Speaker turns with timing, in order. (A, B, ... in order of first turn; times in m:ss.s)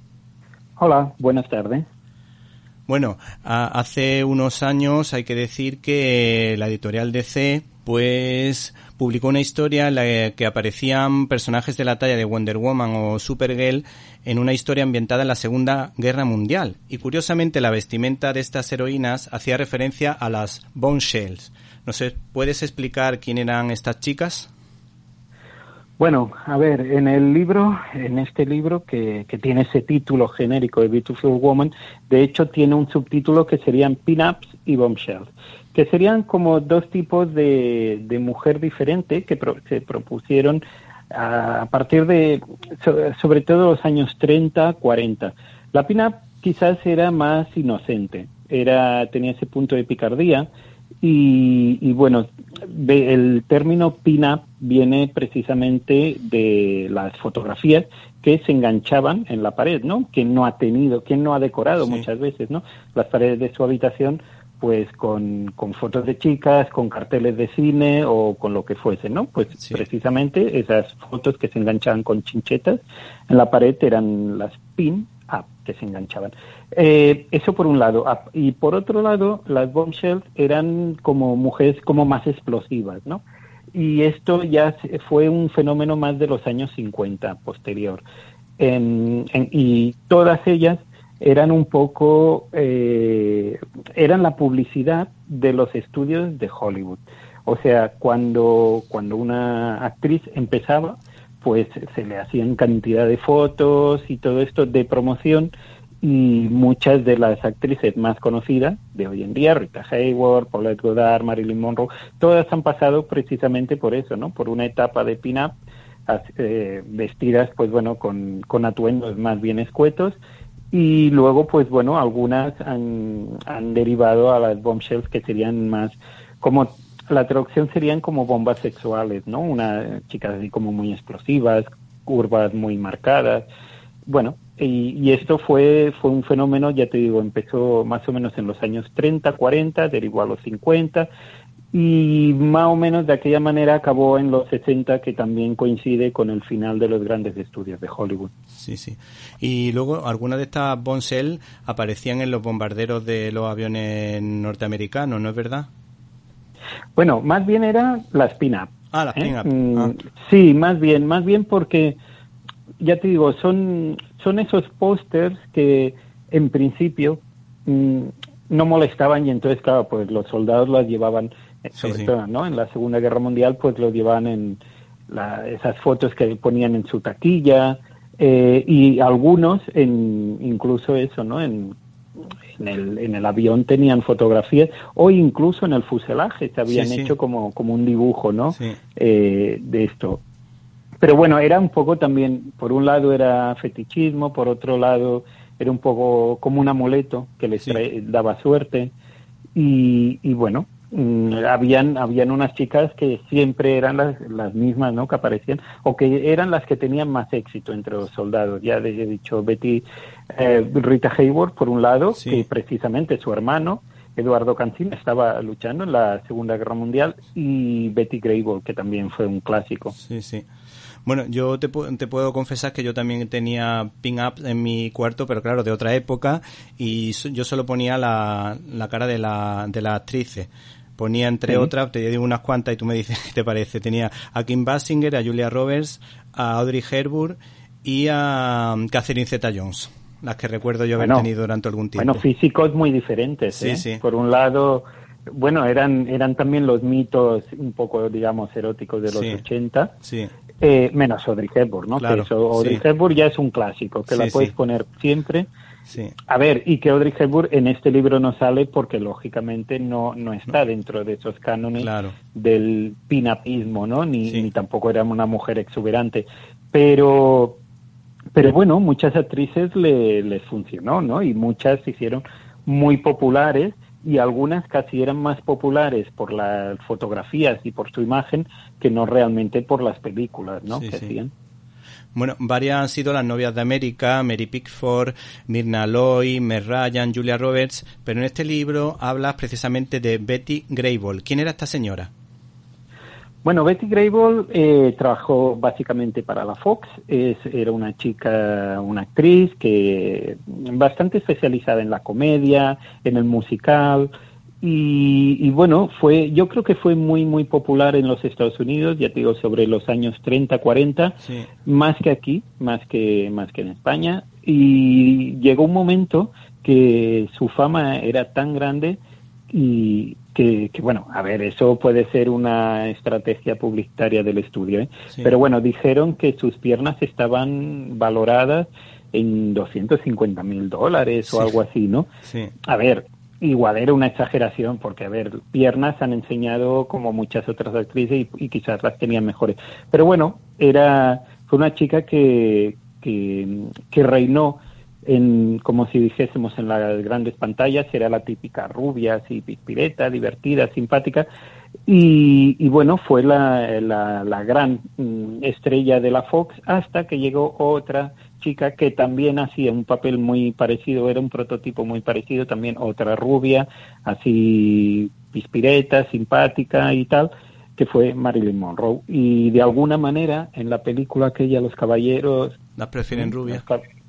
0:00.8-0:01.9 A
0:02.9-0:24.5 B
0:26.0-0:50.5 A
0:51.0-1:23.2 A
1:23.8-1:28.0 A
1:28.6-1:45.5 A
1:46.0-1:55.6 A
1:56.1-2:00.2 A
2:00.7-2:13.5 A
2:14.1-2:21.1 A
2:21.7-2:28.3 A
2:28.6-2:35.7 B
2:37.0-2:42.0 A
2:38.9-2:39.9 B
2:42.8-3:01.8 A
2:51.8-2:52.1 B
3:02.6-3:10.2 A
3:06.7-3:07.1 B
3:11.0-3:18.9 A
3:19.6-3:39.9 A
3:40.0-3:40.5 B
3:41.0-4:02.2 B
4:01.0-4:01.3 A
4:02.0-4:10.0 A
4:03.5-4:04.0 B
4:09.1-4:09.4 B
4:10.0-4:10.3 B
4:10.6-4:15.5 A
4:12.0-4:12.8 B
4:14.1-4:14.5 B
4:16.3-4:27.6 A
4:21.8-4:22.2 B
4:28.4-4:41.3 A
4:40.8-4:41.1 B
4:42.2-4:52.1 B
4:53.4-5:19.0 A
5:19.5-5:32.1 A
5:32.6-5:51.3 A
5:51.9-6:12.6 A
6:12.8-6:13.6 B
6:13.1-6:13.8 A